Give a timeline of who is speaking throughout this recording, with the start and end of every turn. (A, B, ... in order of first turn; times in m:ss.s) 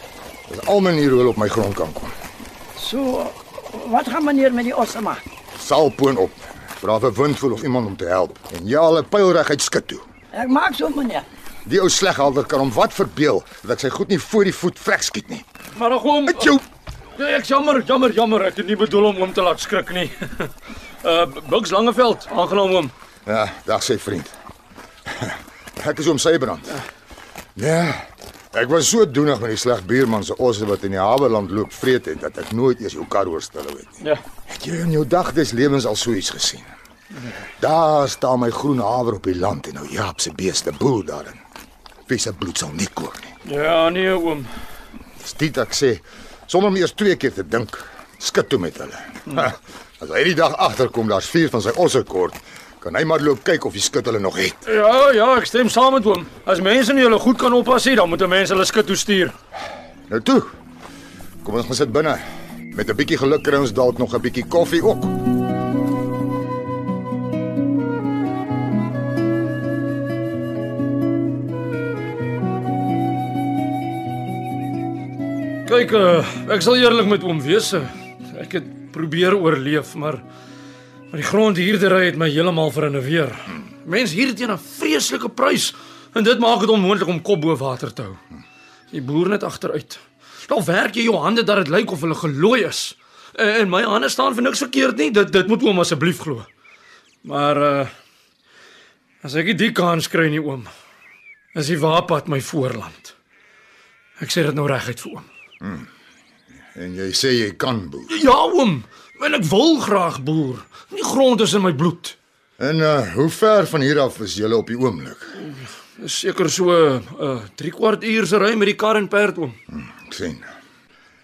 0:00.5-0:02.1 A
0:02.8-0:05.2 B
0:05.6-0:10.0 A
0:10.3-0:11.2 B
0:11.6-0:15.4 A
0:15.8-0:16.6 C
0:16.3-0:16.6 A
0:17.1-0:20.5 C
0:21.0-0:22.9 C
0:23.2-0:24.3 A
0:25.1-0:26.8 A
0:27.6-0:36.7 A
0:37.6-0:41.4 A
0:42.1-0:43.3 A
0:43.4-0:44.5 C
0:45.2-0:54.6 A
0:54.6-0:59.3 C
1:00.1-1:00.5 A
1:01.4-1:05.2 A
1:15.6-1:20.2 C
1:21.1-1:28.2 C
1:28.9-1:36.5 C
1:37.2-1:37.9 C
1:39.2-1:40.7 C
1:41.5-1:43.1 C
1:44.2-1:45.3 C
1:46.7-1:48.2 A
1:48.1-1:52.2 C
1:52.6-1:55.3 A
1:55.4-1:59.6 C
1:59.7-2:00.4 A